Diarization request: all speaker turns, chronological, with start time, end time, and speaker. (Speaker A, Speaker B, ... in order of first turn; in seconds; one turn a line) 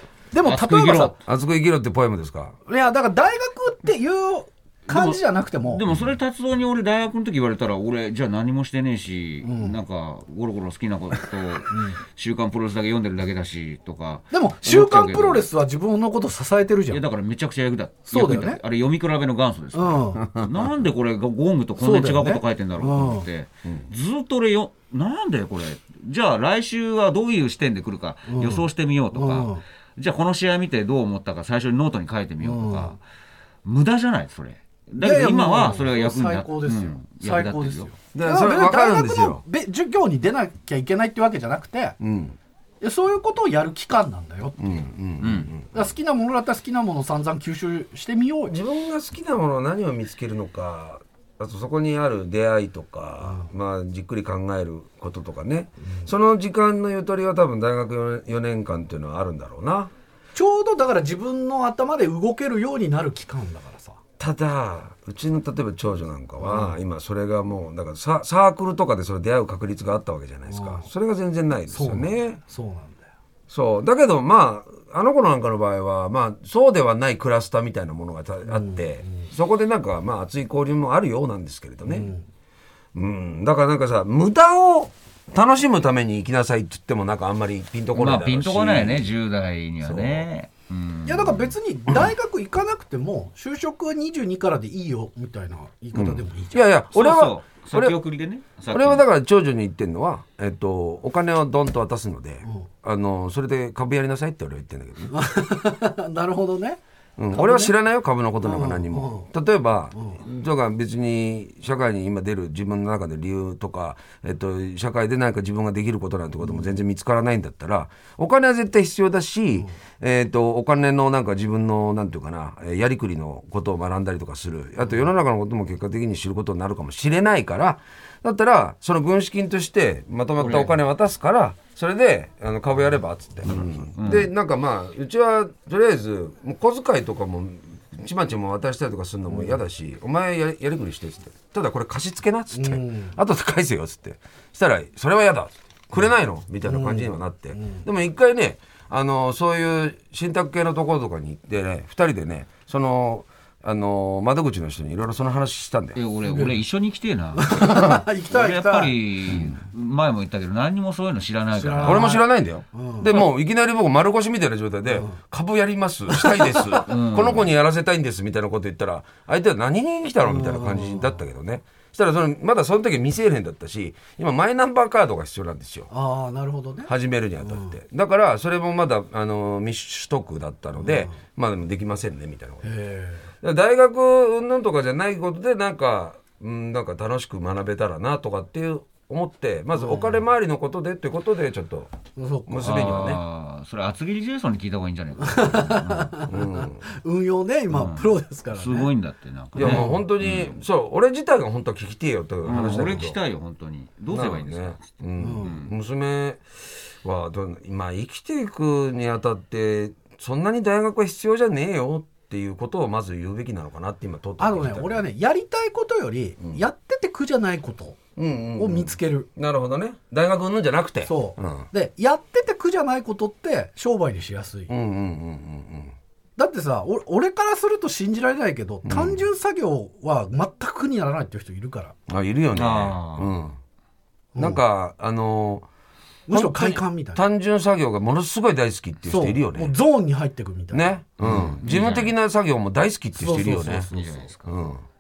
Speaker A: 0.3-1.1
Speaker B: 0.5-1.2
Speaker C: 1.3-2.5
Speaker A: 2.7-5.8
Speaker B: 4.9-15.5
Speaker A: 9.4-9.8
Speaker A: 11.7-12.0
Speaker A: 14.3-17.0
Speaker B: 16.9-33.0
Speaker A: 18.1-18.6
Speaker A: 19.7-20.3
Speaker C: 20.2-20.7
Speaker A: 21.8-23.3
Speaker A: 28.3-29.6
Speaker A: 32.4-33.0
Speaker B: 33.6-37.9
Speaker A: 35.0-42.0
Speaker C: 38.1-39.4
Speaker C: 42.0-42.4
Speaker A: 42.8-44.9
Speaker C: 44.6-45.7
Speaker B: 45.2-45.5
Speaker A: 45.7-48.6
Speaker C: 48.5-59.9
Speaker A: 53.2-53.5
Speaker A: 60.3-64.0
Speaker C: 64.2-72.4
Speaker A: 66.4-66.8
Speaker A: 70.5-70.9
Speaker A: 71.7-73.1
Speaker C: 73.5-82.1
Speaker A: 78.5-79.3
Speaker A: 81.8-82.2
Speaker C: 82.9-89.1
Speaker B: 87.9-91.5
Speaker C: 89.8-90.3
Speaker A: 91.1-96.6
Speaker C: 95.9-98.0
Speaker B: 96.9-99.0
Speaker C: 98.7-105.1
Speaker A: 105.1-106.8
Speaker C: 107.2-156.0
Speaker A: 107.3-107.7
Speaker A: 108.4-109.3
Speaker A: 110.0-110.2
Speaker B: 130.4-130.8
Speaker B: 133.5-134.3
Speaker A: 139.3-139.6
Speaker A: 142.5-143.2
Speaker A: 146.7-147.8
Speaker B: 156.0-162.1
Speaker A: 156.3-156.6
Speaker A: 157.4-158.9
Speaker C: 157.6-158.0
Speaker A: 161.5-163.1
Speaker C: 161.8-175.9
Speaker A: 166.2-166.7
Speaker B: 166.9-167.5
Speaker A: 170.2-171.2
Speaker A: 175.9-176.9
Speaker C: 176.9-182.7
Speaker A: 177.4-177.8
Speaker A: 180.8-181.1
Speaker A: 182.6-183.3
Speaker C: 183.4-191.9
Speaker A: 189.8-190.2
Speaker A: 192.2-192.8
Speaker C: 192.5-193.2
Speaker B: 192.6-196.2
Speaker A: 195.2-198.9
Speaker C: 196.3-196.8
Speaker B: 197.7-200.6
Speaker A: 199.6-200.0
Speaker C: 199.6-203.2
Speaker B: 202.4-205.7
Speaker C: 204.1-215.0
Speaker A: 205.2-205.6
Speaker A: 214.4-218.0
Speaker C: 218.2-221.7
Speaker A: 218.6-219.3
Speaker A: 221.1-224.7
Speaker C: 224.7-225.9
Speaker A: 226.4-231.9
Speaker C: 228.9-229.2
Speaker C: 232.1-233.6
Speaker B: 232.5-233.4
Speaker C: 234.4-235.7
Speaker A: 236.3-237.2
Speaker C: 236.3-239.7
Speaker A: 239.1-241.5
Speaker C: 240.7-243.9
Speaker B: 241.2-242.2
Speaker A: 243.2-244.2
Speaker B: 243.9-244.6
Speaker C: 244.4-244.8